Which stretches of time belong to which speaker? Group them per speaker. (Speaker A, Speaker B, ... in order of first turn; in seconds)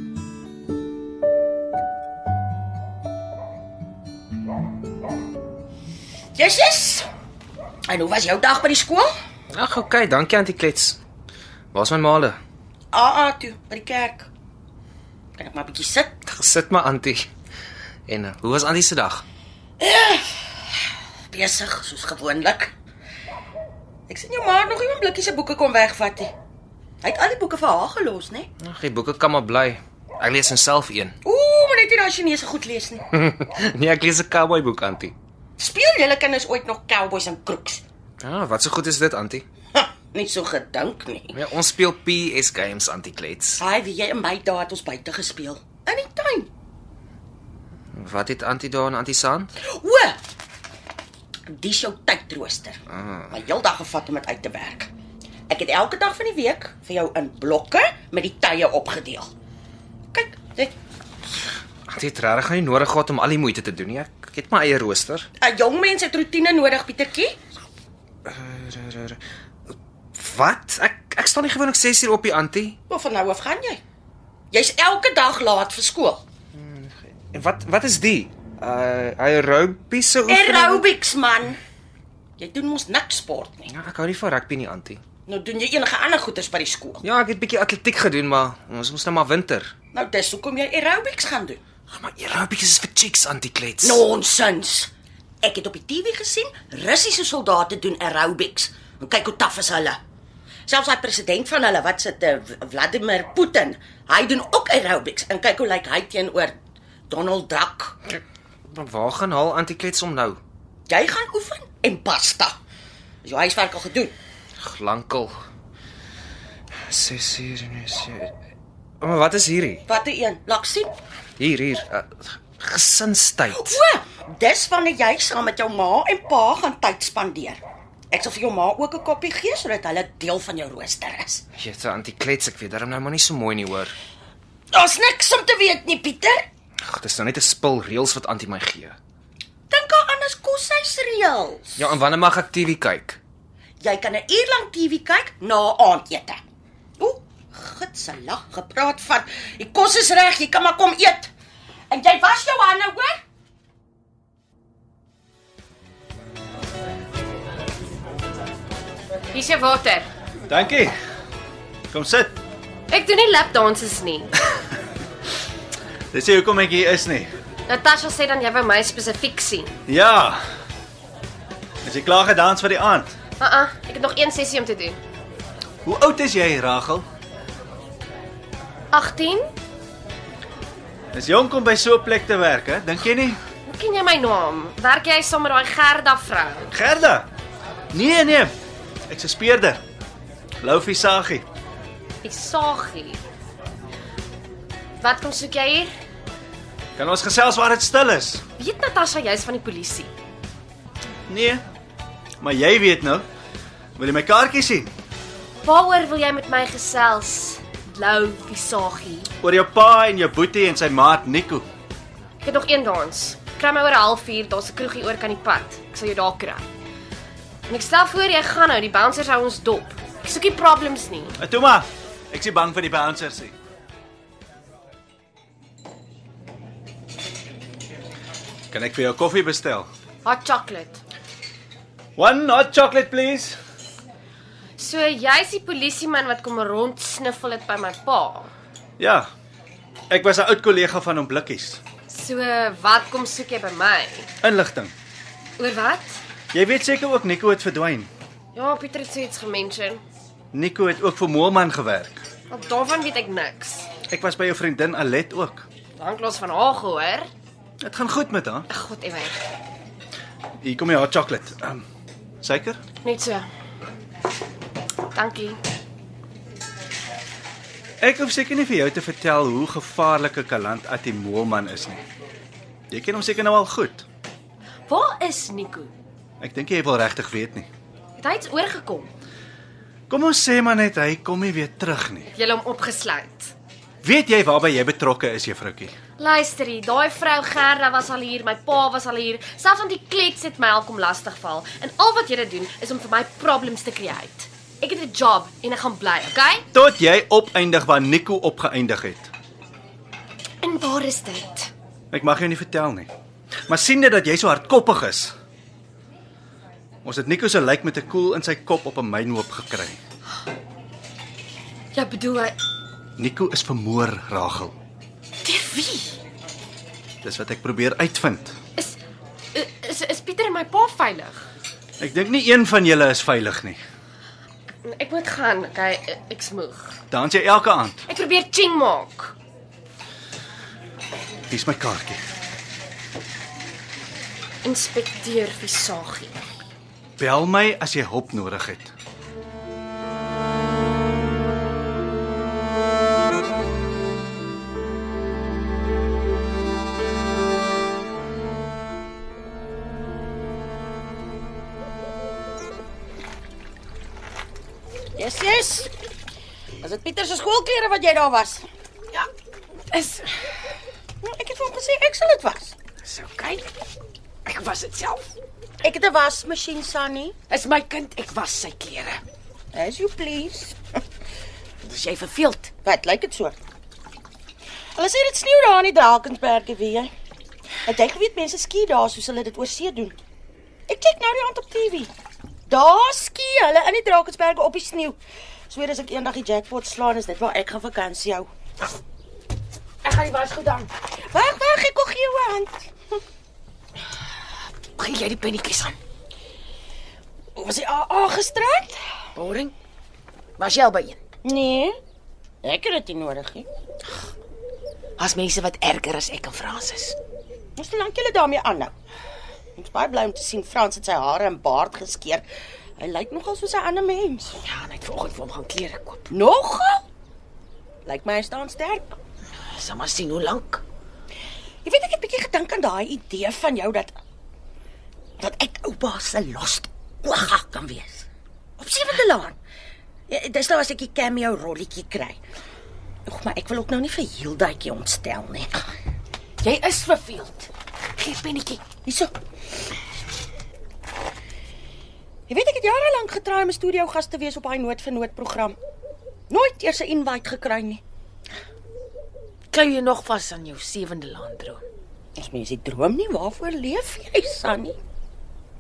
Speaker A: 6.3-7.1, 7.9-9.1, 12.9-14.3, 15.4-16.1, 19.8-20.3, 21.3-22.7, 24.1-26.3, 27.0-28.5, 31.2-33.0, 35.6-37.8, 39.8-41.4, 43.6-46.5, 49.6-50.2, 51.5-54.9, 55.5-59.3, 60.1-60.7, 65.4-67.4, 72.9-73.8, 74.5-76.2, 80.3-81.6, 82.4-83.7, 85.3-87.0, 89.9-91.6, 93.8-94.9, 95.4-100.0, 100.7-106.5, 107.1-108.0, 110.9-112.6, 113.2-114.2, 119.9-120.9, 123.5-131.4, 134.7-136.5, 139.7-141.9, 143.8-146.4, 147.0-151.3, 151.9-153.2, 355.2-355.9, 356.8-358.6, 361.2-362.8, 365.8-367.4, 369.7-370.8, 372.8-373.6, 374.9-377.1, 377.9-380.2, 380.9-382.1, 382.7-385.2, 385.7-388.5, 391.3-392.9, 397.6-399.0, 401.4-402.0, 402.6-403.7, 407.8-408.9, 409.8-412.4, 413.0-414.6, 416.3-417.0, 418.1-419.2, 421.9-424.2, 425.4-428.3, 428.8-429.6, 430.3-432.4, 433.3-435.9, 439.1-439.3, 442.5-445.8, 446.5-448.0, 452.4-455.0
Speaker B: 9.5-11.0, 11.7-12.4, 16.3-17.3, 18.1-19.2, 28.6-31.2, 33.1-35.1, 38.2-39.5, 41.3-43.6, 48.0-49.5, 61.9-65.3, 68.3-69.2, 70.1-72.8, 76.5-80.9, 83.7-85.0, 87.0-89.7, 91.9-94.0, 108.7-110.4, 114.6-115.3, 116.9-118.3, 119.0-119.8, 121.4-123.8, 131.6-133.9, 136.8-139.0, 141.8-143.2
Speaker C: 159.3-160.1, 162.9-164.3, 167.7-169.8, 173.4-175.0, 178.9-179.5, 183.7-186.7, 192.2-193.2, 195.0-195.9, 198.6-200.1, 205.6-209.3, 212.4-216.7, 217.7-221.4, 230.2-231.0, 234.8-238.5, 242.1-244.3, 245.6-246.2, 248.6-250.0, 252.5-253.9, 256.0-257.3, 258.7-259.4, 263.0-263.5, 265.1-265.6, 274.9-275.9, 278.2-279.1, 282.3-283.5, 286.2-296.7, 300.6-301.7, 311.9-312.6, 315.4-316.1, 319.5-321.4, 324.8-327.0, 328.1-329.4, 334.6-336.4
Speaker D: 160.5-160.9, 161.9-162.3, 166.1-167.3, 169.9-170.4, 171.8-173.1, 175.8-177.1, 181.1-183.4, 186.7-187.3, 187.9-188.5, 189.1-189.8, 190.6-191.5, 197.0-198.4, 201.3-201.6, 202.4-203.2, 204.0-204.9, 209.4-211.7, 221.4-223.5, 228.7-229.9, 232.2-233.6, 239.0-239.3, 240.1-241.8, 244.4-244.9, 246.5-248.1, 250.5-252.2, 254.1-255.7, 257.8-258.7, 260.6-261.8, 262.4-262.8, 268.0-272.0, 272.9-274.1, 276.4-277.7, 280.1-282.3, 284.0-285.9, 296.7-299.3, 302.1-303.1, 303.7-305.3, 307.0-310.0, 313.2-314.8, 317.2-318.6, 322.0-323.8, 327.1-328.0, 331.5-332.2, 337.2-338.9
Speaker E: 359.9-360.5, 363.0-363.7, 364.5-365.3, 367.5-369.2, 371.8-372.7, 390.0-390.9, 394.9-396.0, 399.4-399.7, 400.6-401.2, 405.2-407.2, 414.6-416.3, 419.6-420.8, 436.6-438.8, 449.7-451.9